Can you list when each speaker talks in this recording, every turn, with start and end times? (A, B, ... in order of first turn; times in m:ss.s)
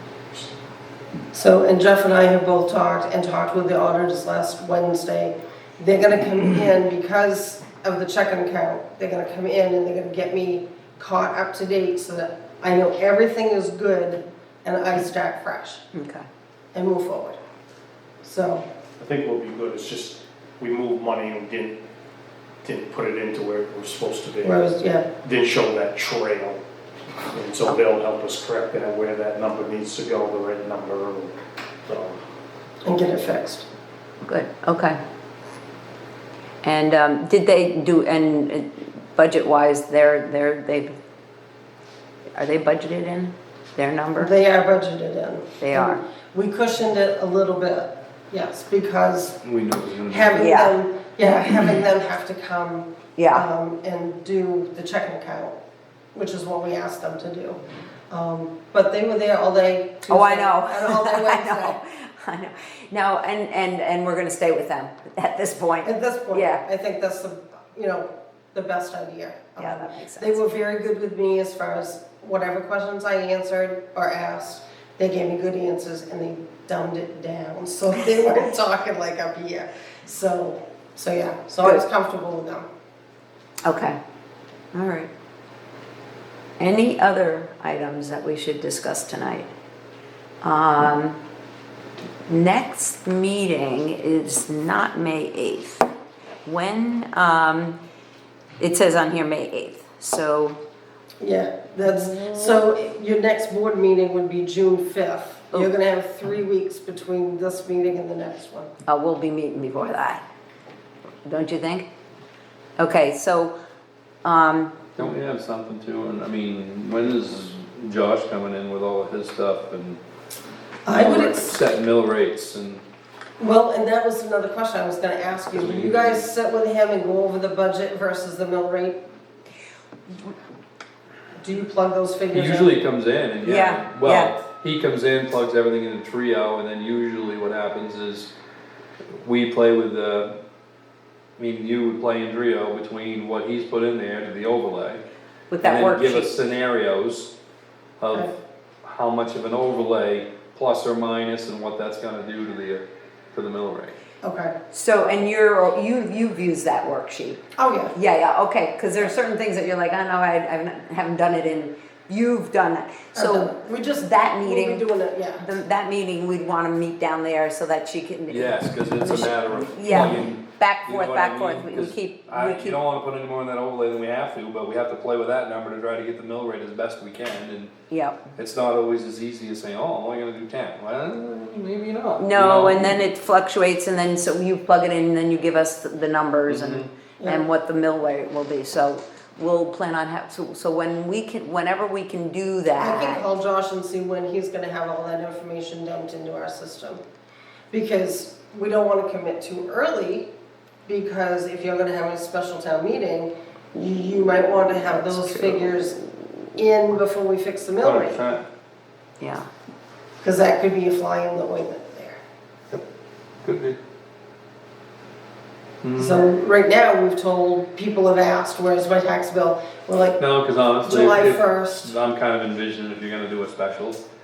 0:01.3-0:15.8 A
0:15.9-0:16.3 B
0:16.7-0:17.4 A
0:18.2-0:18.6 A
0:19.0-0:21.8 C
0:22.6-0:26.6 C
0:24.4-0:25.1 A
0:27.3-0:32.2 C
0:32.8-0:33.6 A
0:34.2-0:35.0 B
0:36.6-0:40.9 B
0:42.4-0:44.4 B
0:44.2-0:49.4 A
0:45.6-0:46.0 B
0:49.4-0:50.5 D
0:50.1-0:55.6 A
0:50.4-0:50.8 B
0:53.2-0:53.5 B
0:56.2-0:57.6 A
0:58.1-1:01.8 A
1:00.1-1:06.6 B
1:05.8-1:22.7 A
1:09.6-1:10.4 B
1:23.6-1:24.0 B
1:24.7-1:25.1 B
1:26.6-1:29.5 B
1:30.4-1:31.2 B
1:32.3-1:35.9 B
1:36.4-1:37.8 B
1:38.6-1:40.6 B
1:41.2-1:48.7 A
1:41.9-1:42.6 B
1:48.8-1:50.2 B
1:51.2-1:51.9 B
1:52.8-1:53.5 B
1:54.2-1:54.8 B
1:55.0-2:00.0 D
2:00.9-2:01.6 A
2:00.9-2:02.8 D
2:03.4-2:09.0 A
2:05.5-2:06.3 D
2:11.4-2:12.8 A
2:12.3-2:18.3 D
2:13.4-2:14.3 B
2:19.2-2:20.3 D
2:21.4-2:25.0 D
2:25.5-2:26.3 B
2:25.6-2:27.3 D
2:28.0-2:34.0 D
2:34.2-2:34.5 A
2:34.7-2:52.8 B
2:37.6-2:38.0 A
2:43.2-2:45.5 A
2:48.3-2:57.7 D
2:57.9-2:58.3 B
2:58.4-3:03.0 D
3:02.2-3:13.2 B
3:06.5-3:06.9 D
3:12.8-3:17.0 A
3:17.7-3:20.3 A
3:20.9-3:26.0 A
3:24.8-3:26.0 B
3:26.6-3:28.2 A
3:27.8-3:28.4 D
3:29.2-3:29.5 B
3:30.2-3:32.2 A
3:33.4-3:33.8 D
3:35.8-3:36.3 D
3:36.0-3:40.2 A
3:40.2-3:44.0 D
3:40.8-3:41.9 A